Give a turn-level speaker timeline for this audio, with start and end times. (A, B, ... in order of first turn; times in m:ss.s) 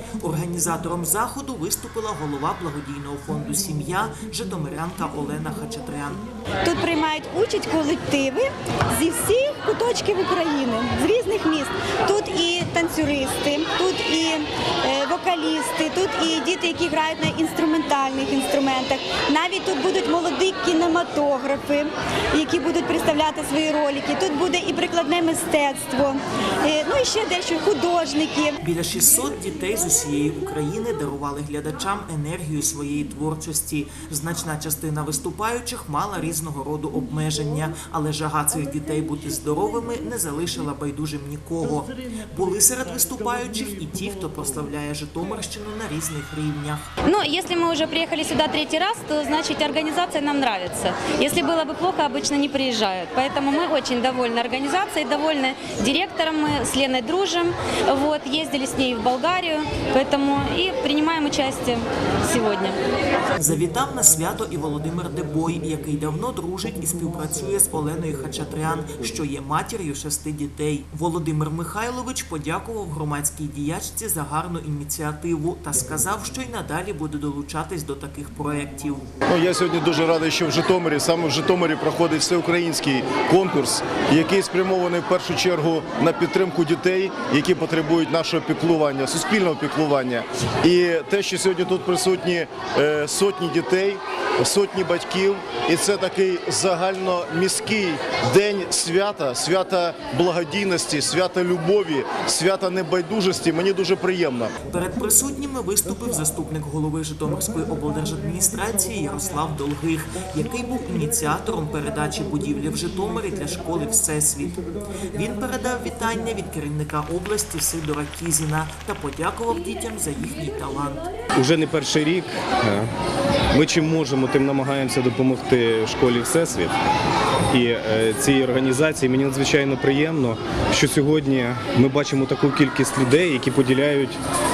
0:00.2-0:06.3 A
0:06.6-0:28.6 B
0:28.6-0:46.9 A
0:47.0-1:02.8 C
1:03.4-1:19.0 A
1:19.3-1:44.5 D
1:44.6-2:01.1 A
2:01.4-2:02.9 E
2:03.5-2:06.7 E
2:07.5-2:14.2 E